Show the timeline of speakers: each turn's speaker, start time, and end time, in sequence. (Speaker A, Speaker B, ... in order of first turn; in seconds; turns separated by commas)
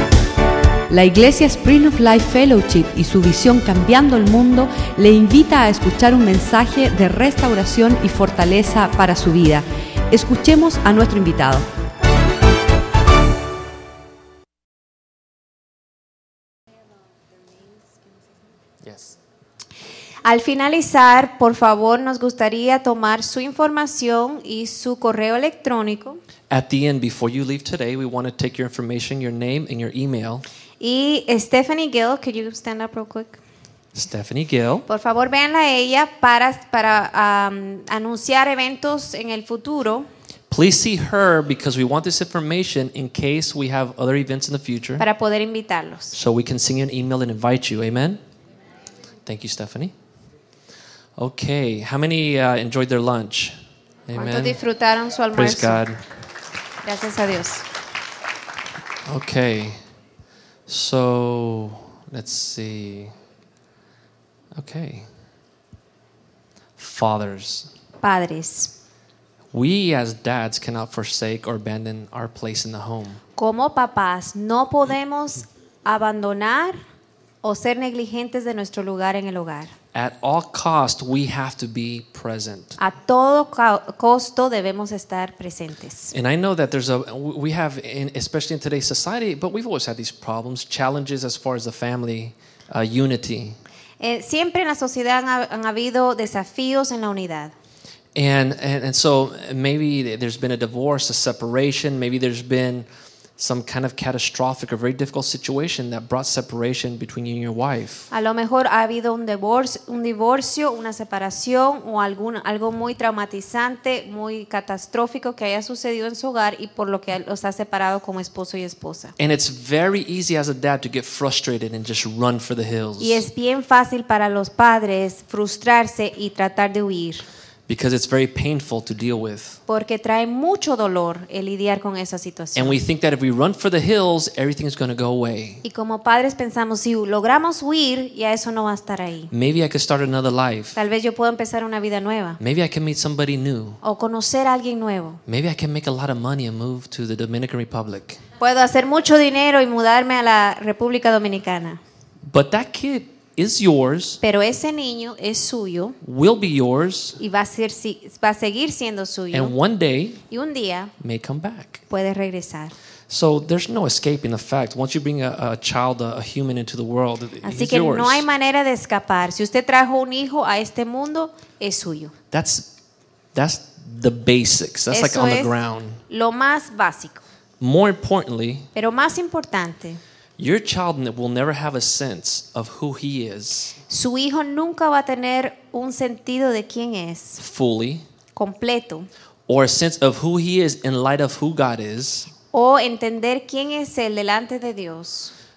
Speaker A: 0.9-11.6, Speaker B: 18.8-19.2, Speaker C: 20.2-26.2, Speaker B: 26.5-30.4, Speaker C: 30.8-33.4, Speaker B: 33.9-34.9, Speaker C: 34.9-40.1, Speaker B: 40.5-45.0, Speaker C: 45.0-46.1, Speaker B: 46.1-48.2, Speaker B: 49.2-49.9, Speaker B: 51.2-53.5, Speaker B: 54.1-54.6, Speaker C: 54.1-55.8, Speaker B: 55.3-56.0, Speaker C: 56.8-57.6, Speaker B: 59.0-59.8, Speaker B: 60.7-63.1, Speaker B: 64.5-65.1, Speaker B: 66.8-67.7, Speaker C: 68.0-68.7, Speaker B: 69.5-73.2, Speaker C: 73.4-76.8, Speaker C: 77.4-79.7, Speaker B: 79.9-82.8, Speaker C: 82.8-86.1, Speaker B: 86.1-93.6, Speaker C: 94.0-97.5, Speaker B: 98.1-102.8, Speaker B: 103.4-108.1, Speaker C: 108.1-119.1, Speaker B: 119.2-123.2, Speaker C: 123.0-127.2, Speaker B: 127.7-129.6, Speaker C: 129.7-132.8, Speaker B: 132.5-135.6, Speaker C: 135.6-139.3, Speaker B: 139.3-140.8, Speaker C: 140.7-142.4, Speaker B: 142.4-143.8, Speaker C: 143.8-145.2, Speaker B: 145.2-148.2, Speaker C: 148.4-151.8, Speaker B: 152.2-154.2, Speaker C: 154.2-155.9, Speaker B: 156.0-157.2, Speaker C: 157.2-159.5, Speaker B: 159.3-160.2, Speaker C: 160.3-160.9, Speaker B: 161.0-161.8, Speaker C: 161.9-162.7, Speaker B: 163.1-168.3, Speaker C: 167.4-172.1, Speaker B: 172.3-172.7, Speaker B: 173.3-176.0, Speaker C: 174.9-175.5, Speaker C: 176.1-177.2, Speaker B: 177.6-178.7, Speaker C: 178.7-180.0, Speaker B: 180.4-183.8, Speaker C: 183.9-187.4, Speaker B: 187.4-188.0, Speaker C: 188.3-189.1, Speaker B: 189.5-192.3, Speaker C: 192.5-195.3